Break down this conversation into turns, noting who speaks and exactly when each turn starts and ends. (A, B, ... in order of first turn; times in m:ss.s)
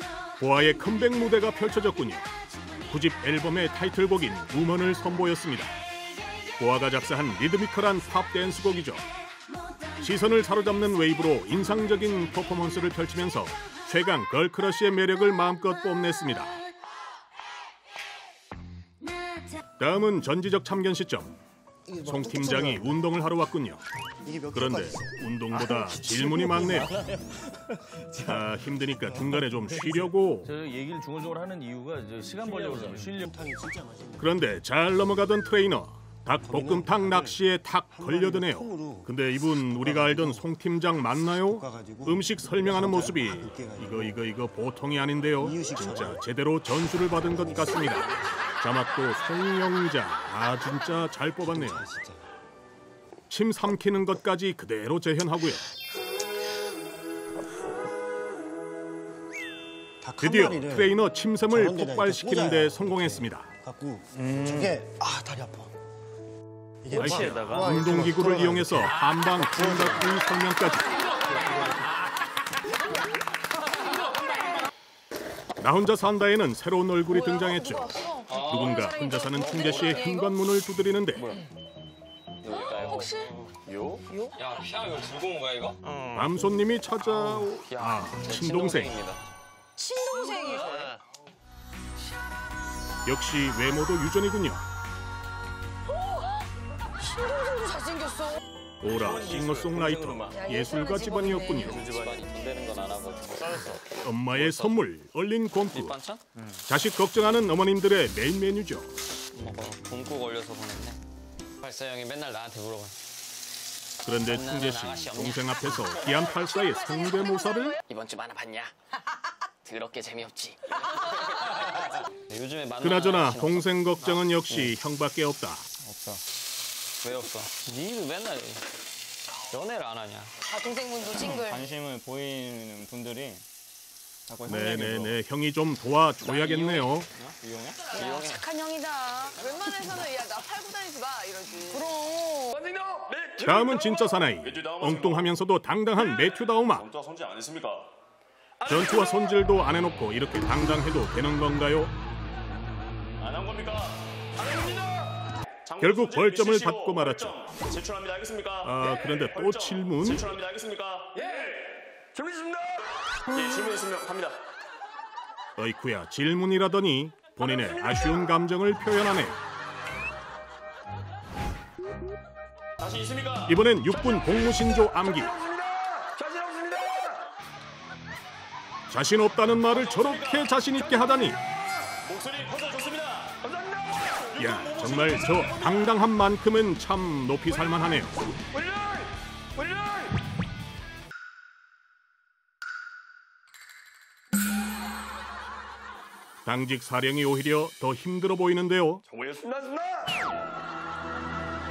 0:00.4-0:02.3 A
0:02.9-0:05.8 A
0:06.6-0:09.0 A
0:10.0-0:16.6 A
0:19.8-0:21.4 A
0:21.9-0:22.8 B
0:22.0-0:23.8 A
0:24.2-0:28.4 B
0:24.5-0:27.0 A
0:28.2-0:30.5 A
0:30.4-0:33.3 C
0:32.4-0:32.9 D
0:32.5-0:34.3 B
0:34.2-0:51.9 A
0:36.4-0:39.1 B
0:39.8-0:40.4 B
0:41.5-0:44.2 B
0:45.4-0:46.2 B
0:47.2-0:48.2 B
0:51.4-0:52.2 B
0:53.3-0:55.6 A
1:00.0-1:01.0 B
1:00.2-1:03.5 A
1:01.5-1:05.7 B
1:06.8-1:09.0 B
1:06.9-1:11.0 A
1:07.2-1:07.6 E
1:15.6-1:21.4 A
1:17.1-1:20.4 F
1:18.3-1:18.9 E
1:19.5-1:20.0 E
1:22.4-1:26.0 E
1:22.5-1:23.3 F
1:24.1-1:24.4 F
1:26.1-1:29.0 A
1:27.0-1:29.2 E
1:29.8-1:31.0 F
1:33.1-1:34.6 A
1:36.0-1:36.4 F
1:37.0-1:38.4 F
1:38.8-1:41.9 A
1:39.0-1:40.3 D
1:39.3-1:40.2 C
1:40.3-1:42.0 F
1:41.4-1:44.8 E
1:44.0-1:46.0 A
1:45.7-1:46.3 E
1:46.7-1:48.9 A
1:49.3-1:51.0 E
1:51.6-1:53.0 E
1:54.0-1:57.8 A
1:54.2-1:56.2 E
1:57.8-1:58.7 G
1:57.9-1:58.7 E
1:59.7-2:00.6 G
1:59.7-2:00.6 E
2:02.3-2:04.7 E
2:02.8-2:05.7 A
2:05.8-2:06.2 G
2:07.0-2:08.6 E
2:09.5-2:10.3 E
2:10.4-2:11.6 F
2:11.3-2:13.3 E
2:11.4-2:13.4 G
2:14.3-2:15.1 G
2:14.4-2:15.1 E
2:14.5-2:17.1 A
2:16.2-2:18.5 E
2:17.4-2:17.8 G
2:17.9-2:22.6 F
2:22.5-2:25.4 D
2:23.4-2:26.9 A
2:26.0-2:27.9 D
2:28.6-2:29.4 D
2:28.6-2:32.0 A
2:33.2-2:44.4 D
2:35.8-2:37.5 A
2:38.6-2:40.3 A
2:45.6-2:49.4 A
2:47.4-2:48.3 D
2:52.8-2:57.3 D
2:53.5-2:55.4 A
2:58.9-3:01.4 A
2:59.7-3:06.0 D
3:04.4-3:08.2 A
3:08.5-3:10.1 D
3:16.4-3:19.0 A
3:19.1-3:20.2 D